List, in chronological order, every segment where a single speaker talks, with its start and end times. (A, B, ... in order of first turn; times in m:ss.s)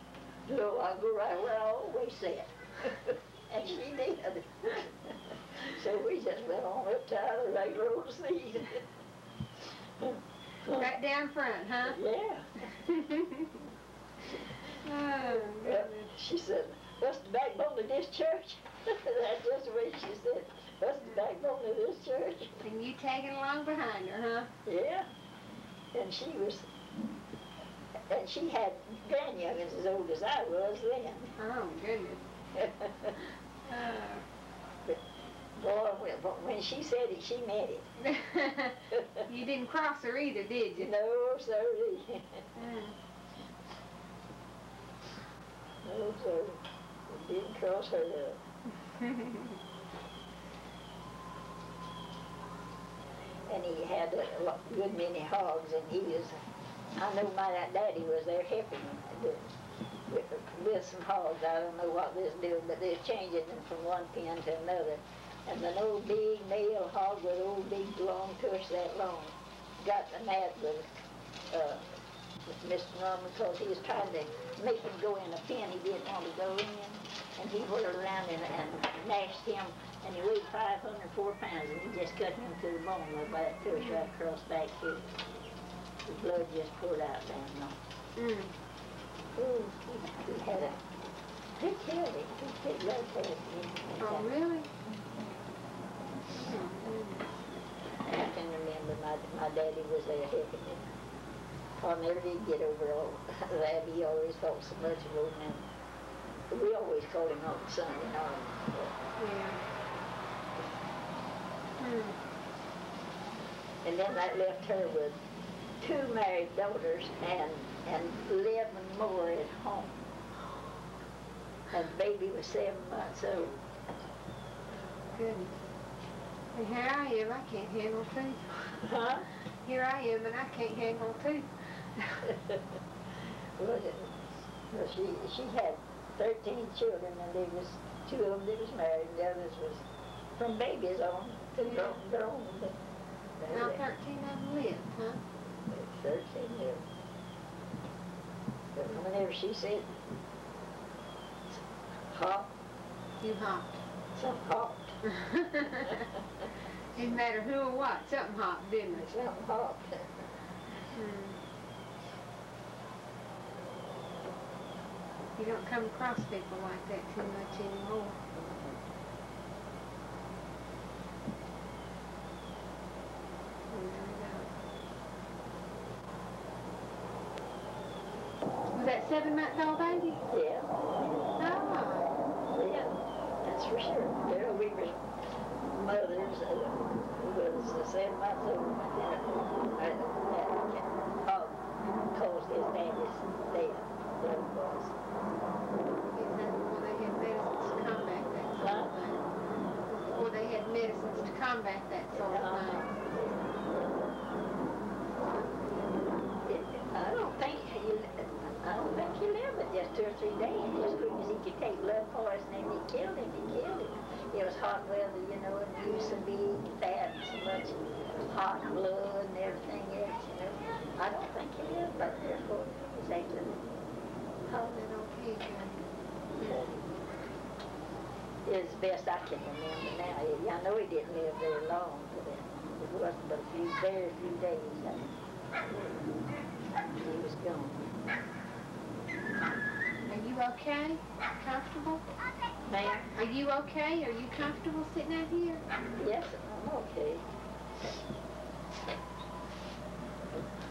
0:00.5-0:08.8 A
0:10.0-0:10.9 A
0:10.7-0:12.0 B
0:11.8-0:12.7 A
0:12.9-0:13.5 B
0:14.7-0:16.1 B
0:15.6-0:22.6 A
0:22.6-0:24.5 B
0:24.6-0:25.1 A
0:25.9-0:26.7 A
0:28.1-0:31.3 A
0:31.4-0:32.2 B
0:32.6-0:33.2 A
0:33.7-0:34.2 B
0:35.6-0:37.9 A
0:38.0-0:40.9 B
0:38.9-0:39.3 A
0:40.8-0:42.5 A
0:42.6-0:43.0 B
0:45.8-0:48.4 A
0:53.5-0:56.4 A
0:57.0-0:59.6 A
1:00.1-1:10.9 A
1:11.5-1:11.9 A
1:12.5-1:25.1 A
1:23.8-1:24.0 B
1:26.1-1:27.8 A
1:28.2-1:28.6 B
1:29.4-1:30.8 A
1:31.6-1:34.3 A
1:34.0-1:34.7 B
1:36.4-1:37.3 B
1:38.0-1:40.9 A
1:41.8-1:45.6 A
1:46.5-1:49.0 A
1:49.2-1:49.6 B
1:51.8-1:52.2 B
1:53.8-1:55.2 A
1:55.8-2:00.0 A
2:01.7-2:03.6 A
2:05.1-2:05.6 B
2:06.5-2:08.8 B
2:08.8-2:09.3 A
2:09.6-2:12.2 B
2:12.2-2:12.6 A
2:13.6-2:14.2 A
2:14.7-2:19.8 A
2:20.4-2:22.8 A
2:21.6-2:21.9 B
2:23.4-2:23.8 A
2:23.5-2:25.2 B
2:25.7-2:26.8 A
2:28.8-2:30.0 A
2:31.5-2:32.5 A
2:33.2-2:33.8 B
2:34.1-2:35.0 A
2:35.0-2:36.1 B
2:37.0-2:39.1 B
2:38.9-2:40.2 A
2:40.9-2:41.4 B
2:45.4-2:48.2 B
2:53.7-2:54.5 B
2:58.7-3:00.2 B
3:00.3-3:00.7 A
3:01.4-3:02.2 B
3:02.5-3:05.0 A
3:05.7-3:15.0 A
3:16.1-3:19.3 B
3:18.6-3:18.9 A
3:19.9-3:22.9 B
3:22.1-3:23.6 A
3:25.1-3:26.1 B
3:26.4-3:43.6 A
3:44.5-3:45.8 B
3:46.4-3:46.8 A
3:48.5-3:55.2 A
3:56.9-3:57.9 A
4:00.1-4:02.0 B
4:02.7-4:03.1 A
4:03.1-4:05.6 B
4:06.0-4:07.2 A